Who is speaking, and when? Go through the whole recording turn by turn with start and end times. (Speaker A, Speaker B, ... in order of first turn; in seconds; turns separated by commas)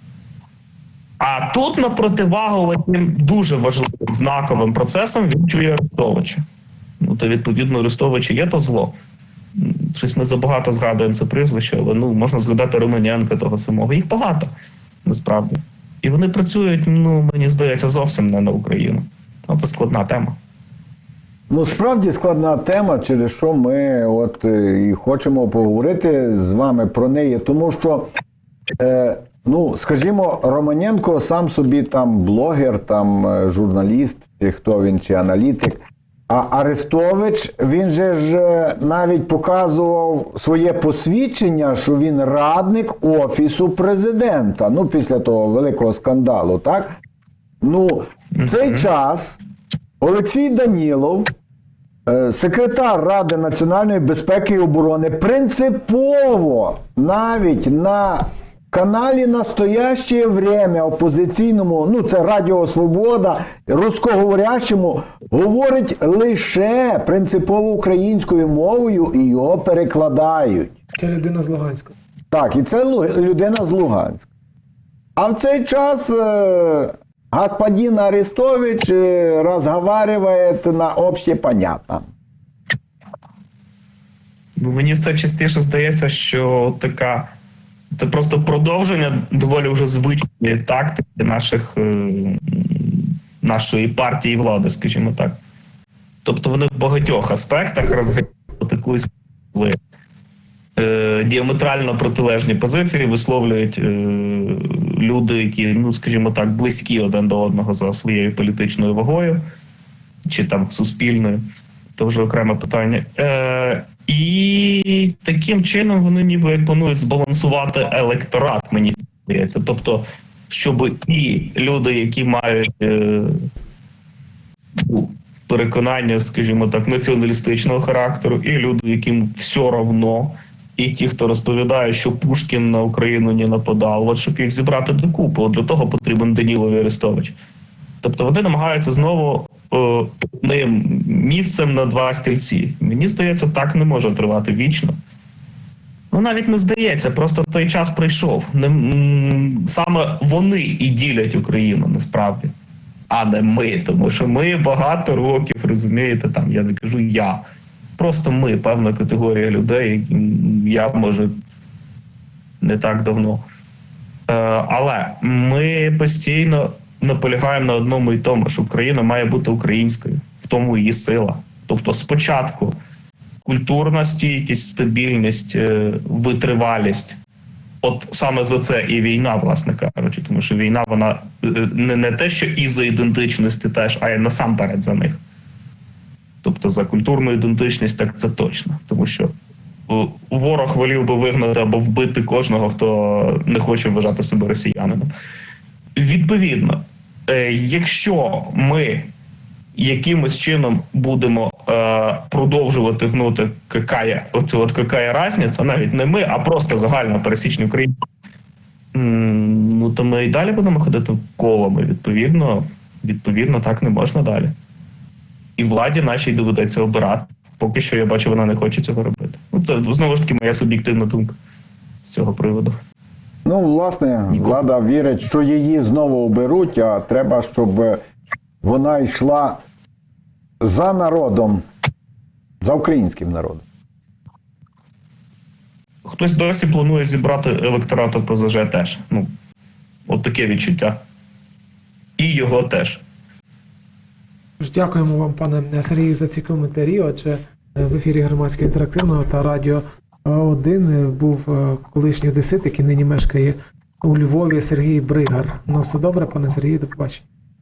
Speaker A: 1.2-6.4, Speaker A: 7.0-8.9, Speaker A: 9.6-14.5, Speaker A: 15.0-20.4, Speaker B: 21.5-28.1, Speaker B: 28.8-47.0, Speaker B: 47.6-49.4, Speaker A: 48.3-48.9, Speaker B: 50.0-51.3, Speaker B: 52.1-70.8, Speaker C: 71.0-71.9, Speaker B: 72.3-74.3, Speaker B: 75.2-82.1, Speaker A: 84.6-87.3, Speaker A: 87.9-95.4, Speaker A: 96.2-99.8, Speaker A: 100.8-109.4, Speaker A: 110.2-123.5, Speaker A: 124.8-137.3, Speaker A: 138.0-144.9, Speaker A: 146.1-152.5, Speaker A: 153.1-157.4, Speaker A: 158.0-161.3, Speaker A: 162.6-163.4, Speaker A: 164.3-172.8, Speaker A: 173.4-177.2, Speaker A: 177.8-185.2, Speaker A: 186.4-189.3, Speaker A: 189.9-195.1, Speaker A: 195.9-199.1, Speaker A: 199.8-207.9, Speaker A: 208.9-214.5, Speaker A: 215.6-221.4, Speaker A: 222.0-222.8, Speaker B: 223.4-228.0, Speaker A: 224.3-224.6, Speaker B: 228.6-229.6, Speaker B: 230.6-231.6, Speaker B: 232.6-233.6, Speaker A: 236.0-239.3, Speaker A: 240.1-241.0, Speaker A: 242.2-243.0, Speaker C: 244.6-257.2